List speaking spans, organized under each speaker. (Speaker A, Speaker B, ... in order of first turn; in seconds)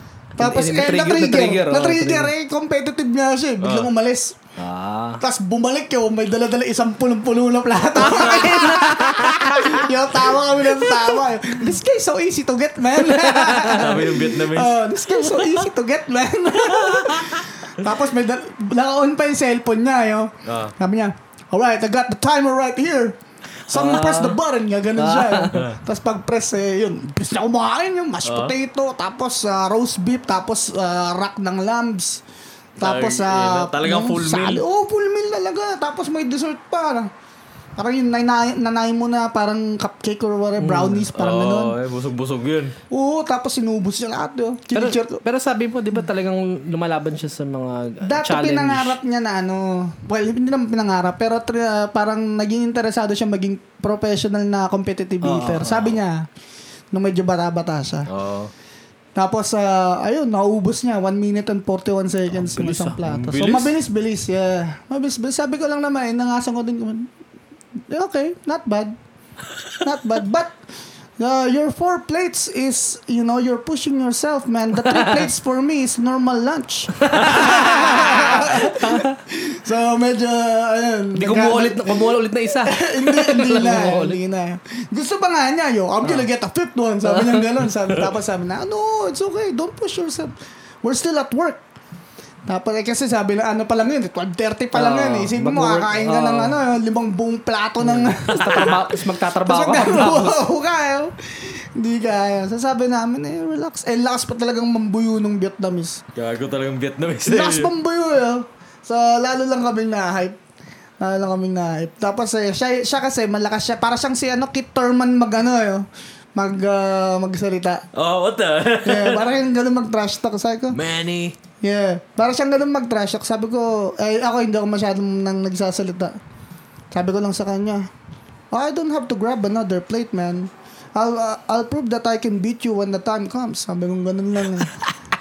Speaker A: 0.4-2.3, 4.6-5.2, 8.0-9.8, 13.1-13.8, 23.7-24.4, 25.0-25.6, 40.6-41.0, 44.7-49.0, 55.2-55.7, 62.3-63.0, 77.0-79.2, 81.1-84.2, 87.0-87.5, 94.7-96.6, 97.8-100.4
Speaker B: 0.4-4.4, 5.2-23.2, 23.7-32.2, 32.8-37.1, 37.8-41.7, 42.9-45.2, 48.0-56.3, 56.9-58.1, 59.1-67.1, 67.9-69.0, 69.8-70.6, 71.2-91.6, 92.5-98.8, 99.4-106.0, 107.2-110.4, 111.0-117.8, 118.8-120.8, 121.6-126.2, 126.9-127.9, 128.5-134.9
Speaker C: 3.6-3.9, 13.7-15.6, 16.6-17.4, 20.4-20.7, 25.5-25.8, 28.2-28.5, 32.8-34.6, 41.1-42.8, 55.6-56.0, 58.1-58.5, 63.0-63.7, 98.3-98.8, 106.1-107.7, 117.9-119.3, 120.7-121.4